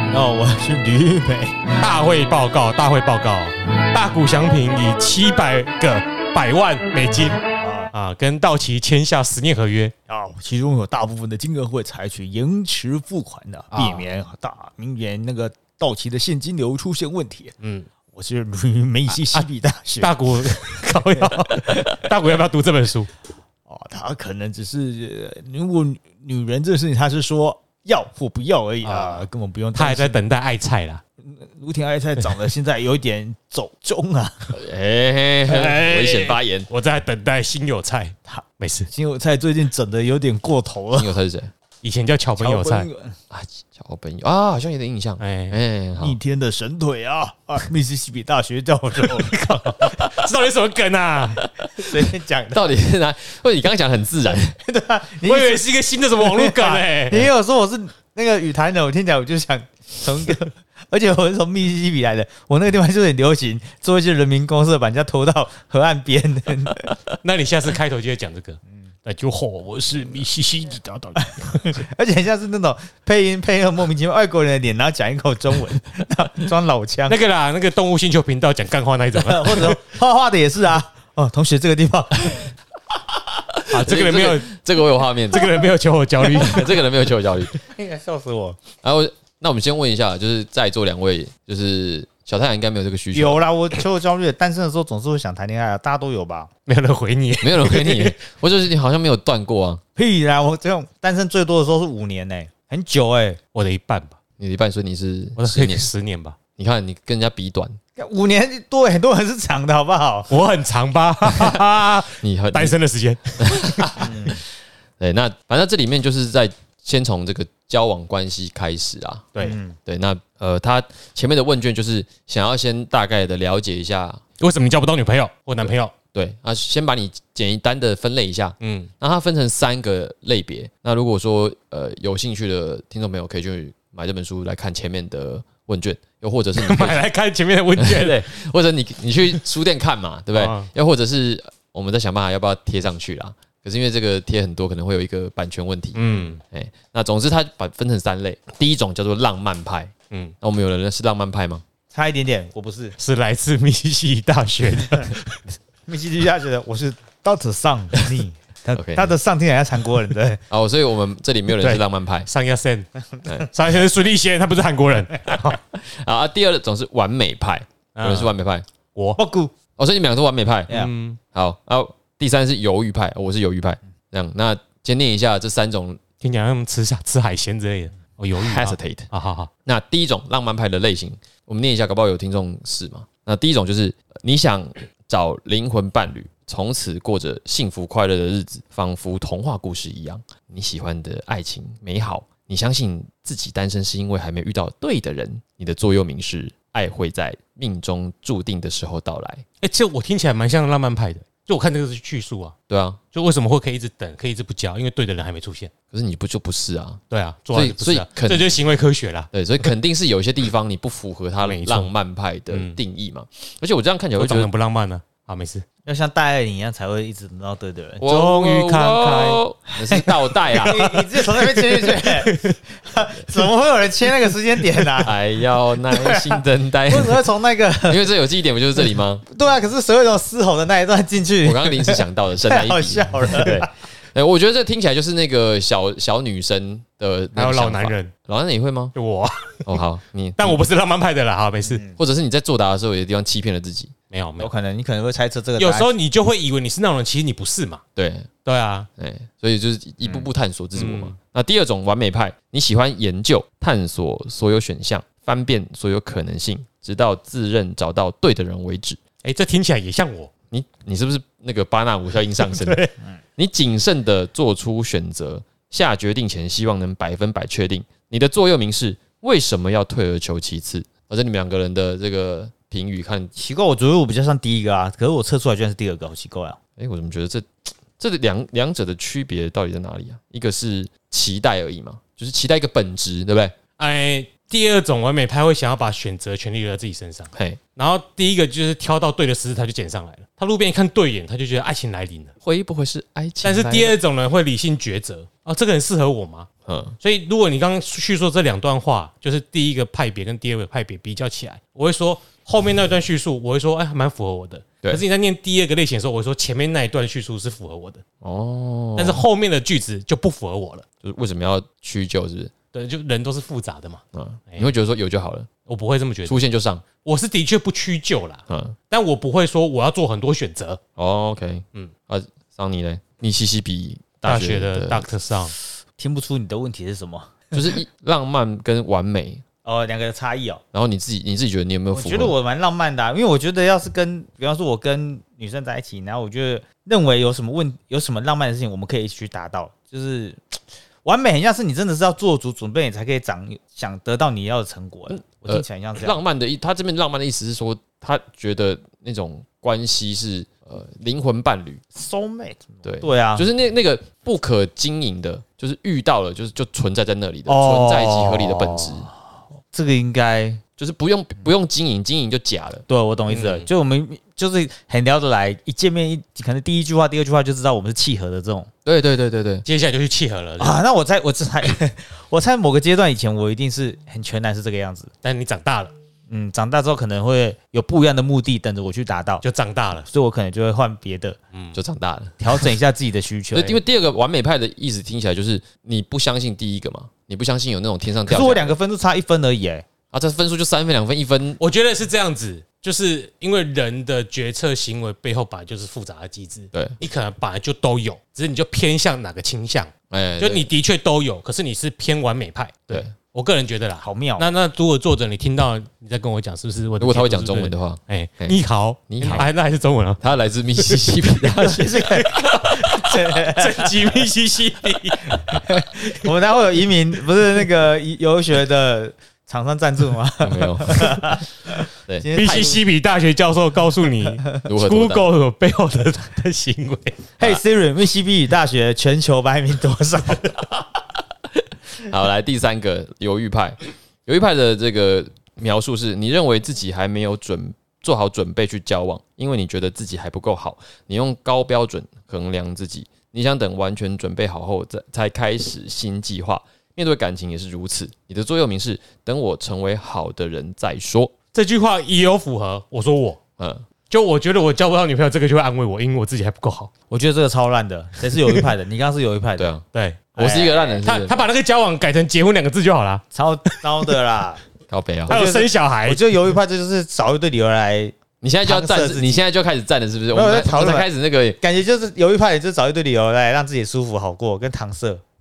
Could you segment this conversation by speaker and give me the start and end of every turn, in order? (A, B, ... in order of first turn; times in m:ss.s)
0:00.1-0:01.7 A
0:01.8-0:07.4 B
0:07.6-0:07.9 A
0:07.9-0:09.9 B
0:10.1-0:17.5 A
0:13.7-0:14.0 B
0:17.6-0:17.9 B
0:18.1-0:20.1 A
0:20.0-0:23.1 B
0:21.0-0:21.9 A
0:23.7-0:30.2 A
0:28.8-0:31.0 B
0:31.3-0:34.6 A
0:34.5-0:36.7 C
0:35.5-0:38.9 B
0:38.3-0:41.1 A
0:40.9-0:41.5 C
0:41.8-0:42.9 B
0:42.4-0:43.2 A
0:43.3-0:46.2 C
0:45.2-0:45.6 B
0:46.0-0:49.4 A
0:49.0-0:51.4 B
0:51.4-0:51.8 C
0:51.8-0:52.6 A
0:52.5-0:54.6 C
0:54.5-1:06.9 A
0:55.2-0:57.3 B
1:07.2-1:11.8 B
1:11.2-1:17.2 A
1:17.1-1:19.8 B
1:19.2-1:22.5 A
1:23.6-1:25.6 C
1:23.7-1:24.5 B
1:25.3-1:26.7 B
1:26.2-1:27.6 C
1:27.6-1:28.6 A
1:28.8-1:33.4 C
1:33.1-1:36.5 A
1:36.6-1:38.2 B
1:37.4-1:39.8 C
1:40.0-1:43.4 A
1:43.5-1:44.2 B
1:44.4-1:45.9 C
1:45.4-1:46.4 B
1:46.6-1:47.8 C
1:48.0-1:50.3 A
1:50.3-1:54.1 B
1:52.2-1:52.8 C
1:53.4-1:54.1 C
1:54.0-1:54.4 A
1:55.0-2:04.2 C
1:59.4-1:59.8 A
2:04.4-2:05.9 B
2:06.1-2:17.0 C
2:08.6-2:08.9 B
2:16.6-2:18.3 B
2:17.8-2:31.6 C
2:20.4-2:20.7 B
2:25.9-2:26.4 B
2:31.9-2:33.0 A
2:33.0-2:35.4 B
2:35.9-2:40.4 A
2:38.7-2:39.1 C
2:40.5-2:42.3 C
2:41.5-2:42.9 B
2:43.4-2:45.6 B
2:45.3-2:48.6 C
2:47.9-2:48.3 B
2:49.2-2:49.5 A
2:49.8-2:50.8 C
2:50.7-2:51.2 B
2:51.3-2:56.0 C
2:56.2-2:59.5 B
2:58.4-2:59.1 C
2:59.6-3:19.4 C
3:19.6-3:22.5 B
3:22.7-3:23.0 C
3:23.1-3:25.7 B
3:25.9-3:27.0 C
3:27.1-3:29.3 B
3:27.5-3:28.5 C
3:29.3-3:34.5 C
3:31.4-3:31.9 B
3:32.5-3:32.8 B
3:34.2-3:35.6 B
3:35.8-3:38.0 A
3:38.0-3:40.9 C
3:38.0-3:39.4 B
3:39.8-3:45.2 A
3:40.7-3:41.0 B
3:41.6-3:42.6 B
3:45.0-3:47.2 C
3:45.8-3:48.0 A
3:47.8-3:49.2 C
3:48.8-3:53.7 A
3:51.4-3:58.9 C
3:57.4-3:58.1 B
3:58.9-3:59.6 B
3:59.6-4:00.6 C
4:00.4-4:01.8 B
4:01.7-4:02.0 A
4:02.0-4:03.9 C
4:04.1-4:04.5 B
4:04.4-4:05.9 A
4:05.6-4:07.8 B
4:08.0-4:08.3 C
4:08.4-4:08.9 B
4:09.0-4:19.0 C
4:10.0-4:10.3 A
4:10.8-4:11.1 B
4:19.2-4:20.3 B
4:20.5-4:22.8 C
4:22.4-4:22.9 B
4:23.4-4:33.3 C
4:33.4-4:36.6 A
4:36.8-4:43.5 C
4:43.8-4:52.3 B
4:47.3-4:47.6 C
4:52.4-4:54.0 C
4:53.4-4:56.5 B
4:56.6-4:57.0 C
4:57.0-5:08.0 B
5:08.2-5:09.2 C
5:09.0-5:10.8 B
5:11.0-5:12.5 C
5:12.7-5:14.7 B
5:14.1-5:15.5 C
5:15.6-5:16.4 B
5:16.2-5:16.8 C
5:17.0-5:20.8 B
5:18.5-5:18.7 C
5:21.0-5:25.1 C
5:24.2-5:25.5 B
5:26.0-5:27.8 A
5:27.5-5:29.4 C
5:29.6-5:30.6 A
5:30.7-5:32.3 C
5:31.9-5:46.2 A
5:45.1-5:51.8 C
5:51.9-5:53.5 A
5:52.8-5:59.1 C
5:57.5-5:59.1 A
5:59.7-6:00.6 A
6:00.8-6:02.8 C
6:02.9-6:08.7 A
6:03.3-6:03.7 B
6:08.8-6:09.6 C
6:09.6-6:10.8 B
6:10.6-6:15.1 A
6:15.2-6:15.9 B
6:16.3-6:19.4 A
6:19.4-6:20.1 B
6:20.1-6:21.4 A
6:21.5-6:21.8 B
6:21.7-6:22.4 C
6:22.4-6:23.8 A
6:23.5-6:28.8 C
6:28.2-6:29.8 A
6:30.1-6:31.6 C
6:31.6-6:50.2 B
6:40.1-6:40.7 C
6:44.0-6:44.5 A
6:47.0-6:48.6 C
6:49.1-6:49.5 C
6:50.2-6:52.2 C
6:50.8-6:51.1 B
6:51.5-6:54.2 A
6:52.1-6:56.3 B
6:55.5-7:02.8 A
7:00.4-7:01.4 C
7:02.1-7:02.7 C
7:02.3-7:07.2 B
7:04.6-7:05.2 C
7:07.4-7:10.6 A
7:12.0-7:31.3 C
7:31.5-7:33.4 B
7:33.6-7:33.8 C
7:34.1-7:36.9 B
7:37.1-7:39.7 A
7:39.6-7:39.8 C
7:39.9-7:40.2 B
7:40.4-7:41.0 A
7:40.4-7:41.4 C
7:41.0-7:43.8 B
7:43.3-7:44.6 A
7:44.9-7:45.4 C
7:45.3-7:46.2 B
7:45.3-7:49.4 A
7:48.4-7:51.6 C
7:50.3-7:51.1 A
7:51.6-7:55.2 A